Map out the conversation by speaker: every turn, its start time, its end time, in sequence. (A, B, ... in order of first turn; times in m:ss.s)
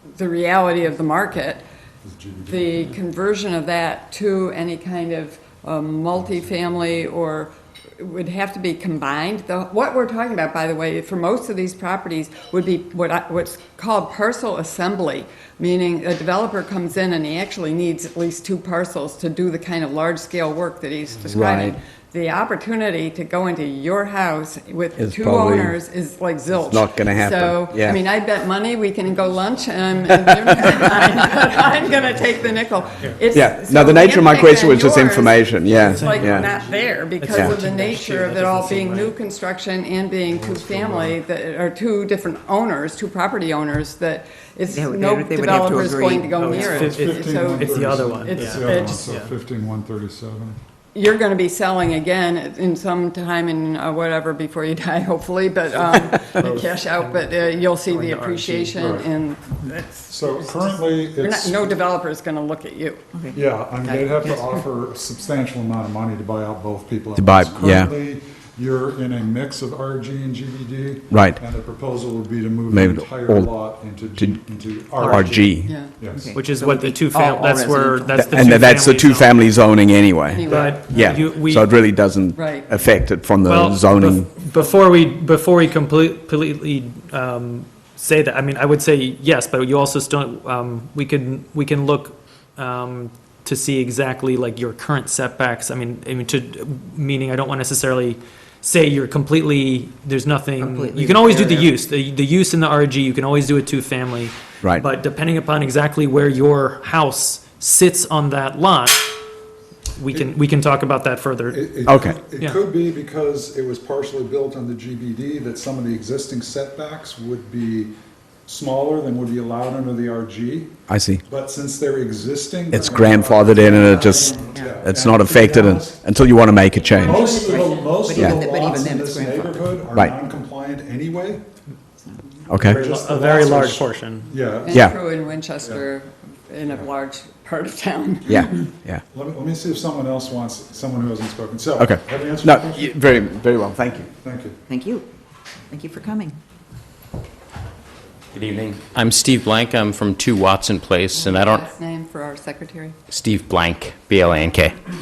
0:00.1-0:01.6 A
0:02.0-0:02.9 B
0:02.5-0:49.1 A
0:06.2-0:07.0 B
0:21.3-0:21.8 C
0:25.0-0:25.8 C
0:26.6-0:28.0 C
0:30.1-0:30.5 C
0:31.6-0:33.2 B
0:33.3-0:36.5 C
0:35.7-0:36.8 B
0:35.9-0:39.2 D
0:40.3-0:41.2 B
0:44.7-0:46.9 E
0:46.3-0:49.3 D
0:46.7-0:50.6 B
0:50.9-1:00.2 A
0:55.8-0:58.8 D
0:58.8-0:59.1 B
0:59.6-1:01.7 B
1:01.2-1:03.0 A
1:03.2-1:04.1 E
1:03.3-1:16.3 B
1:07.2-1:07.9 C
1:11.1-1:11.4 C
1:12.7-1:13.6 C
1:14.2-1:14.4 C
1:15.0-1:15.6 D
1:15.0-1:15.8 C
1:15.6-1:15.9 A
1:16.0-1:18.7 E
1:16.3-1:19.4 D
1:18.1-1:24.3 C
1:20.3-1:21.1 A
1:20.5-1:21.7 D
1:22.4-1:22.7 A
1:23.5-1:49.2 D
1:40.6-1:41.8 E
1:50.0-1:52.6 D
1:51.5-1:57.9 B
1:51.9-1:52.2 C
1:58.5-2:06.0 B
2:00.9-2:01.2 C
2:02.7-2:07.2 C
2:03.8-2:04.4 A
2:04.3-2:04.9 E
2:06.9-2:09.8 E
2:07.0-2:11.4 B
2:07.1-2:07.8 A
2:08.0-2:08.5 C
2:12.5-2:12.8 C
2:12.6-2:15.0 B
2:12.8-2:14.3 D
2:14.6-2:18.5 A
2:18.3-2:19.0 C
2:19.1-2:22.9 B
2:21.8-2:24.1 C
2:24.2-2:24.6 B
2:24.7-2:25.1 E
2:25.7-2:26.4 E
2:28.3-2:31.7 F
2:31.1-2:33.0 A
2:33.1-2:34.8 F